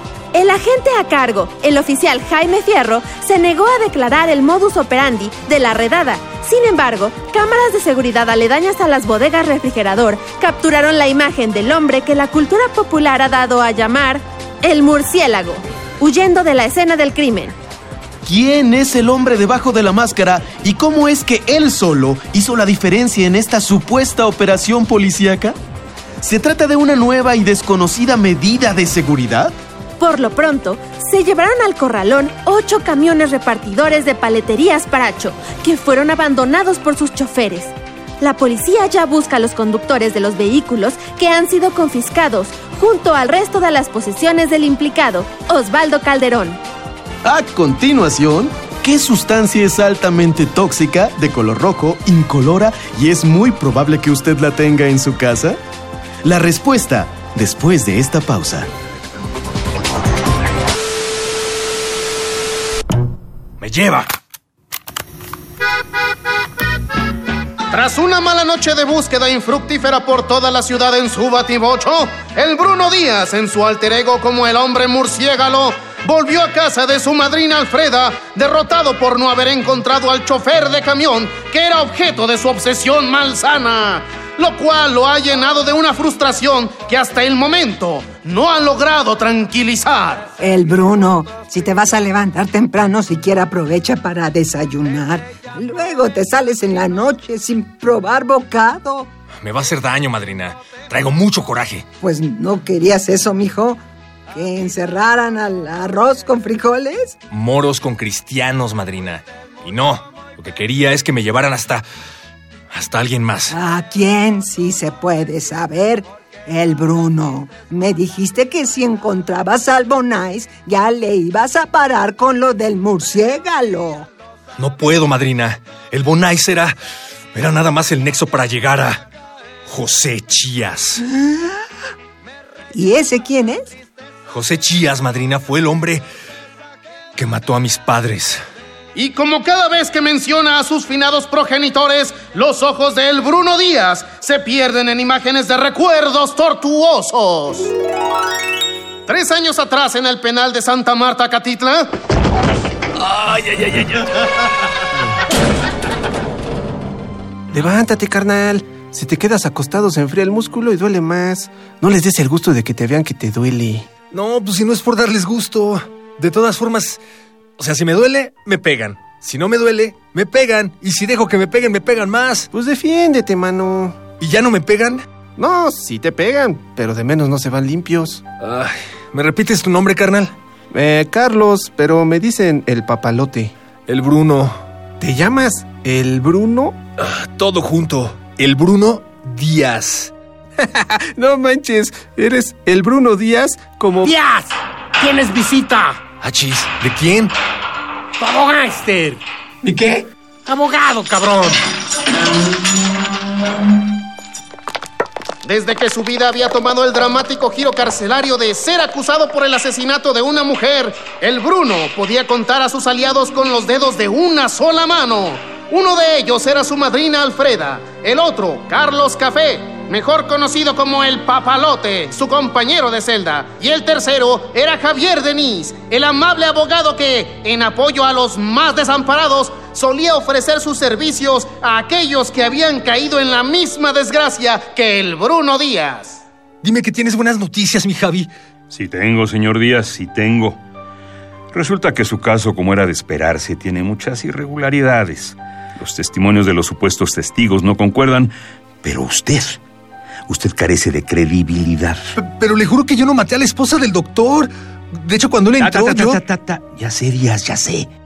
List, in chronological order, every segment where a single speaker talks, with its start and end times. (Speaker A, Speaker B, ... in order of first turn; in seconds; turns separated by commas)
Speaker A: 0.3-17.6, Speaker B: 18.2-25.6, Speaker B: 26.2-29.6, Speaker A: 30.0-46.6, Speaker B: 47.2-55.6, Speaker B: 56.2-58.7, Speaker C: 63.6-64.1, Speaker D: 67.7-90.3, Speaker E: 90.4-99.1, Speaker C: 99.4-101.8, Speaker E: 102.0-103.8, Speaker E: 104.3-107.2, Speaker C: 107.3-111.8, Speaker C: 112.7-113.5, Speaker E: 113.5-124.1, Speaker C: 124.6-126.8, Speaker C: 127.3-129.1, Speaker C: 129.7-131.0, Speaker E: 132.7-133.8, Speaker C: 134.3-136.1, Speaker C: 137.2-138.4, Speaker D: 138.9-147.7, Speaker D: 149.1-151.9, Speaker C: 153.0-154.3, Speaker F: 157.5-163.9, Speaker C: 164.1-167.0, Speaker C: 167.6-172.5, Speaker F: 172.5-174.1, Speaker C: 174.2-175.0, Speaker F: 175.4-178.2, Speaker C: 178.4-180.3, Speaker F: 180.7-183.5, Speaker C: 183.9-184.6, Speaker F: 185.0-186.8, Speaker C: 187.0-190.1, Speaker F: 190.6-194.1, Speaker G: 194.0-196.1, Speaker C: 196.2-197.3, Speaker G: 198.2-199.9, Speaker G: 200.5-201.6, Speaker D: 205.4-236.2, Speaker C: 236.6-238.3, Speaker H: 238.7-240.6, Speaker H: 241.5-249.6, Speaker H: 250.3-252.1, Speaker C: 252.2-256.2, Speaker H: 255.6-257.9